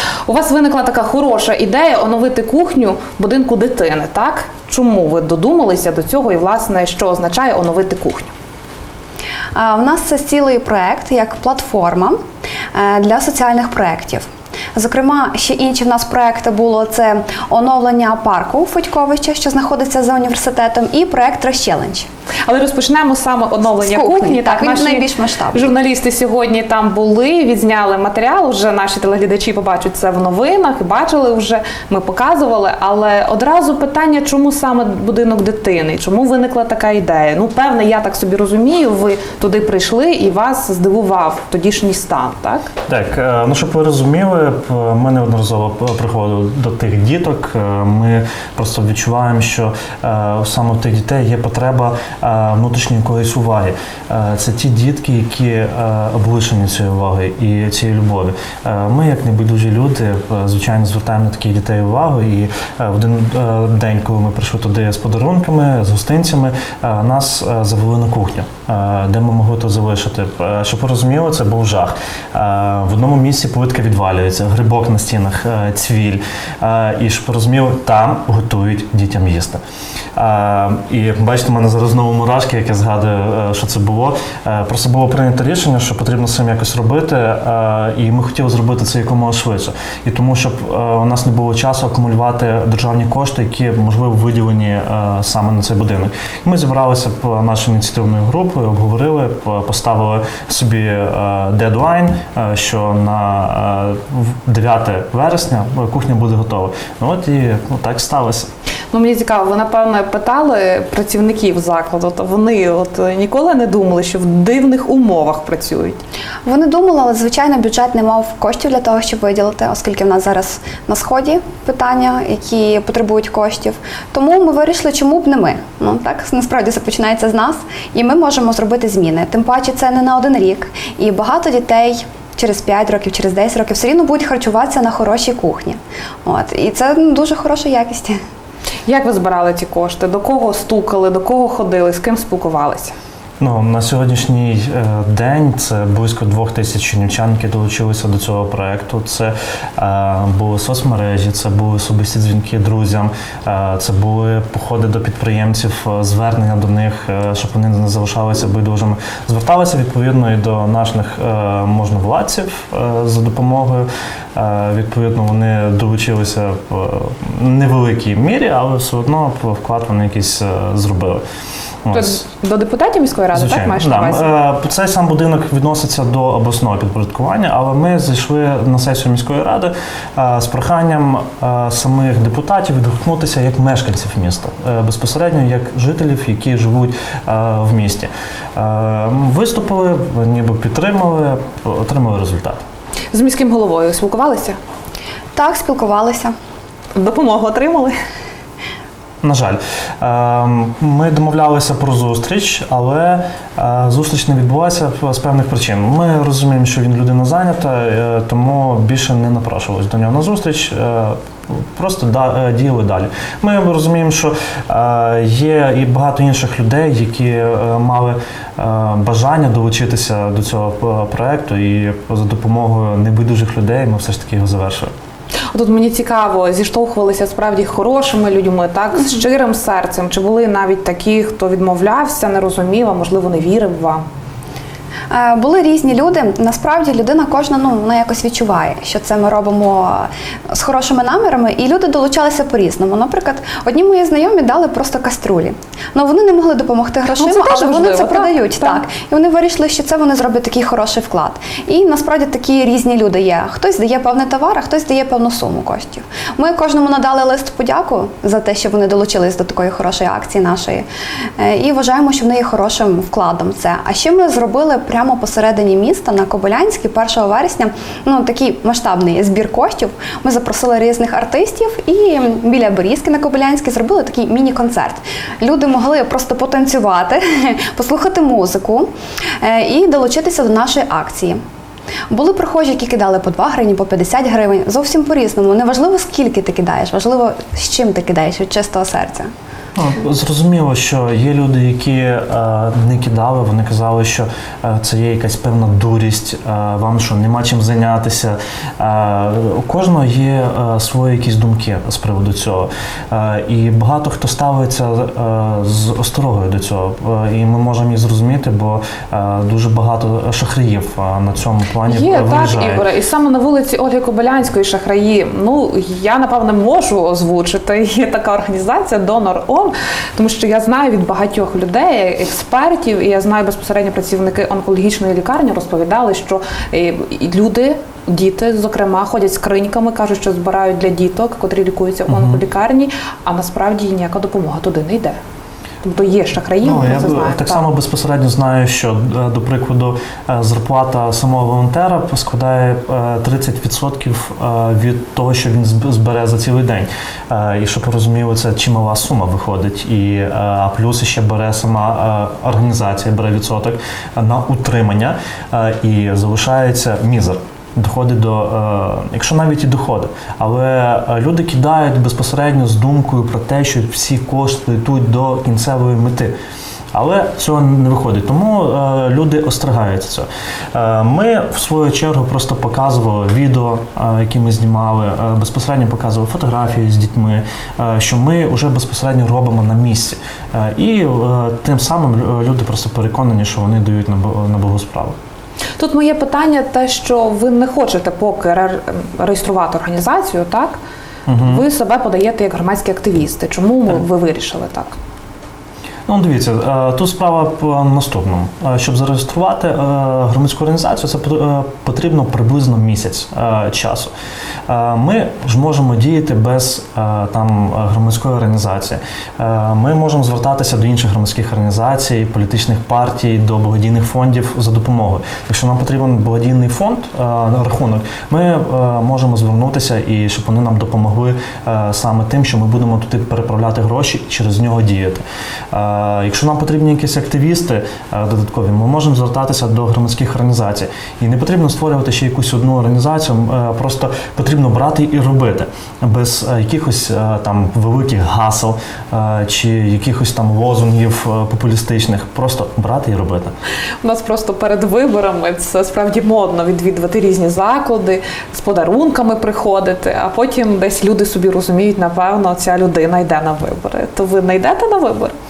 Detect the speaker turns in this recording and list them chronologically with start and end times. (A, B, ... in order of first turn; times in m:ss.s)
0:00.3-0:08.3 A
0:09.6-0:12.2 B
0:12.7-0:22.1 B
0:22.4-0:42.7 A
0:23.8-0:25.7 B
0:42.9-1:19.6 C
1:20.2-1:48.5 C
1:48.9-1:56.0 A
1:56.5-2:18.2 B
2:18.9-2:23.0 A
2:23.4-2:51.2 C
2:51.8-2:52.2 C
2:51.9-2:54.3 A
2:53.3-3:12.6 C
3:13.1-3:14.6 A
3:15.4-3:16.4 B
3:17.0-3:18.0 A
3:19.2-3:44.9 C
3:45.5-3:54.0 A
3:55.1-4:20.9 B
4:07.2-4:08.8 A
4:21.4-4:41.4 B
4:42.1-4:49.3 B
4:49.8-5:12.9 C
5:11.9-5:35.2 A
5:32.1-5:32.4 C
5:35.8-5:37.7 A
5:36.6-6:06.4 C
6:06.9-6:25.2 C
6:25.8-6:30.8 A
6:31.3-6:31.6 C
6:31.4-6:35.0 A
6:36.1-6:44.1 C
6:44.7-7:23.6 C
7:24.0-7:35.4 A